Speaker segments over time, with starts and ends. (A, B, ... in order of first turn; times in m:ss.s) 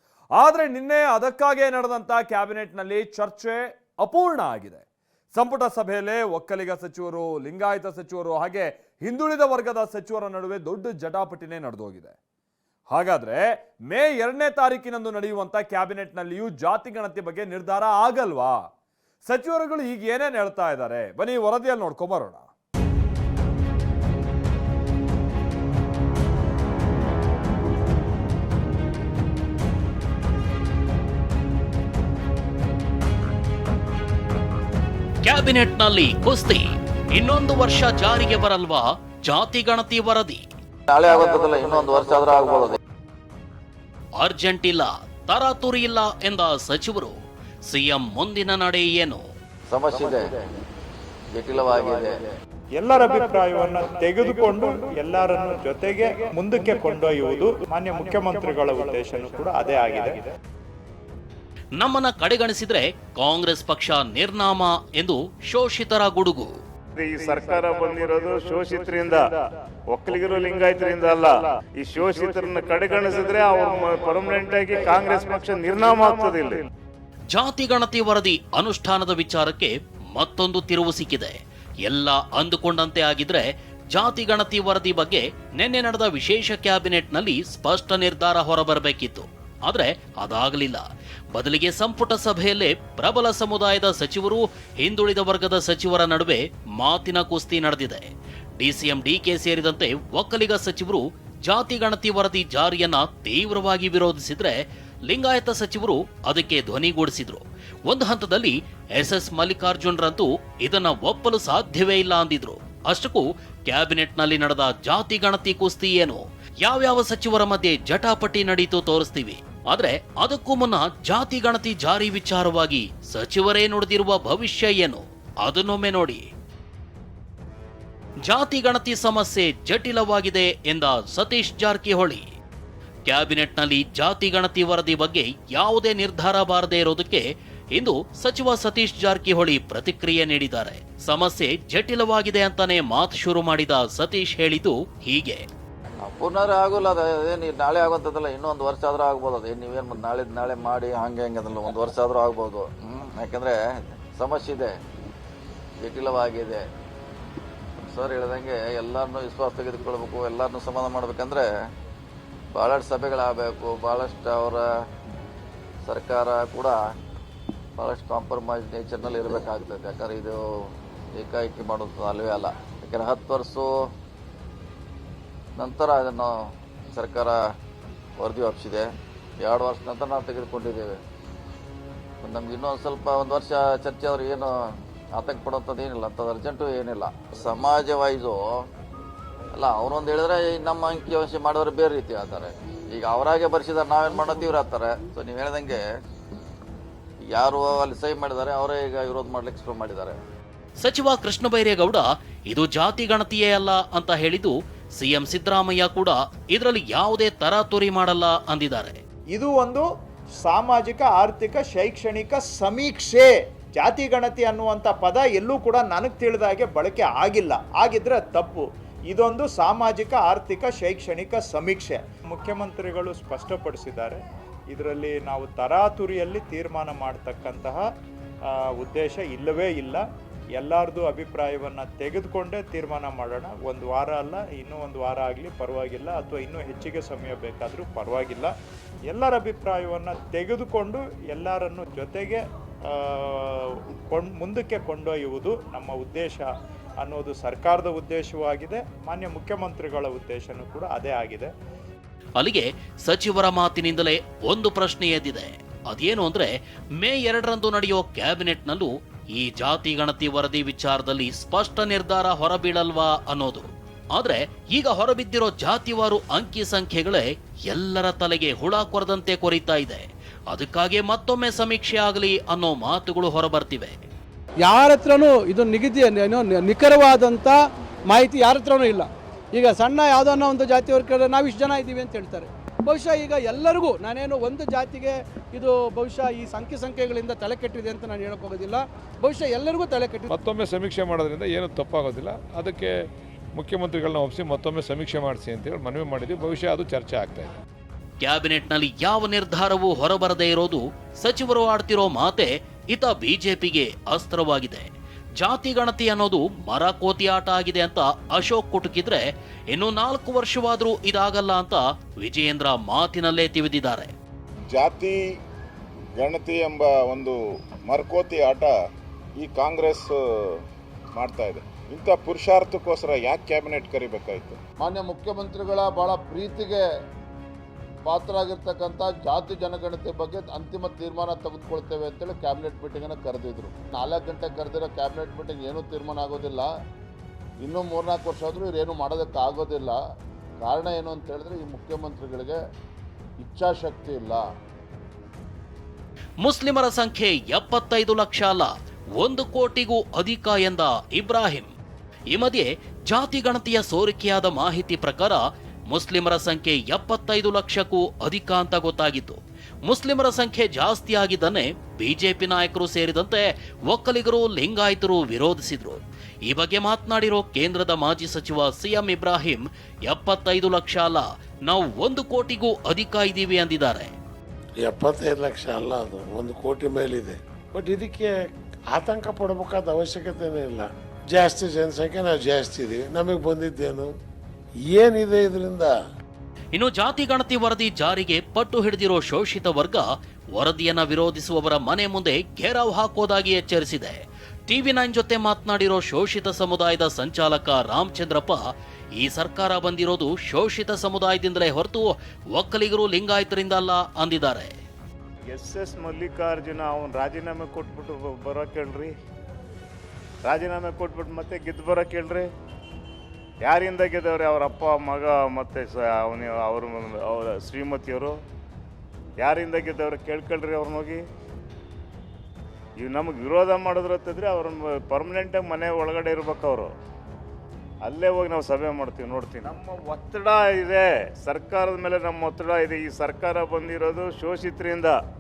0:00.4-0:12.2 A
0:12.9-0:18.7 A
0:19.2-0:22.5 A
0:35.2-0:40.5 B
0:40.9-0:42.8 C
0:44.2-0:47.2 B
0:47.7-0:49.2 B
0:49.7-0:50.4 C
0:51.3-0:52.3 C
0:52.8-1:00.3 D
1:01.8-1:06.6 B
1:07.0-1:09.4 E
1:09.9-1:16.7 E
1:17.3-1:38.1 B
1:38.6-2:06.3 B
2:08.2-2:12.3 B
2:13.0-2:25.4 B
2:26.0-2:34.8 C
2:35.8-2:36.7 C
2:37.9-2:41.5 C
2:42.5-2:44.6 C
2:45.8-2:46.8 C
2:47.8-2:53.7 C
2:55.6-2:56.3 C
2:56.9-2:57.4 C
2:58.2-2:58.9 C
2:59.4-3:01.0 C
3:02.2-3:04.5 C
3:05.1-3:08.6 C
3:09.5-3:15.8 C
3:17.2-3:20.2 C
3:20.8-3:29.0 B
3:29.3-3:29.8 D
3:30.4-3:44.2 D
3:44.7-3:47.8 D
3:48.7-3:50.0 D
3:50.6-3:58.5 D
3:59.1-4:02.4 D
4:02.9-4:03.5 D
4:04.1-4:06.5 D
4:07.0-4:11.5 D
4:12.4-4:34.0 B
4:34.6-4:50.3 F
4:50.4-4:52.9 G
4:53.6-4:57.5 G
4:58.2-5:04.9 B
5:05.4-5:14.1 B
5:14.7-5:15.2 H
5:16.1-5:18.8 H
5:19.4-5:20.2 H
5:21.2-5:24.6 H
5:24.8-5:26.8 I
5:28.1-5:36.7 I
5:37.6-5:40.0 I
5:40.6-5:42.6 I
5:43.4-5:44.4 I
5:46.4-5:51.7 B
5:52.3-6:14.1 B
6:14.8-6:24.2 J
6:24.9-6:26.0 J
6:26.7-6:38.6 B
6:39.2-6:44.7 B
6:45.5-6:49.1 E
6:50.4-6:52.5 E
6:53.6-6:58.4 E
6:59.4-7:01.2 E
7:03.0-7:06.9 E
7:08.0-7:15.2 E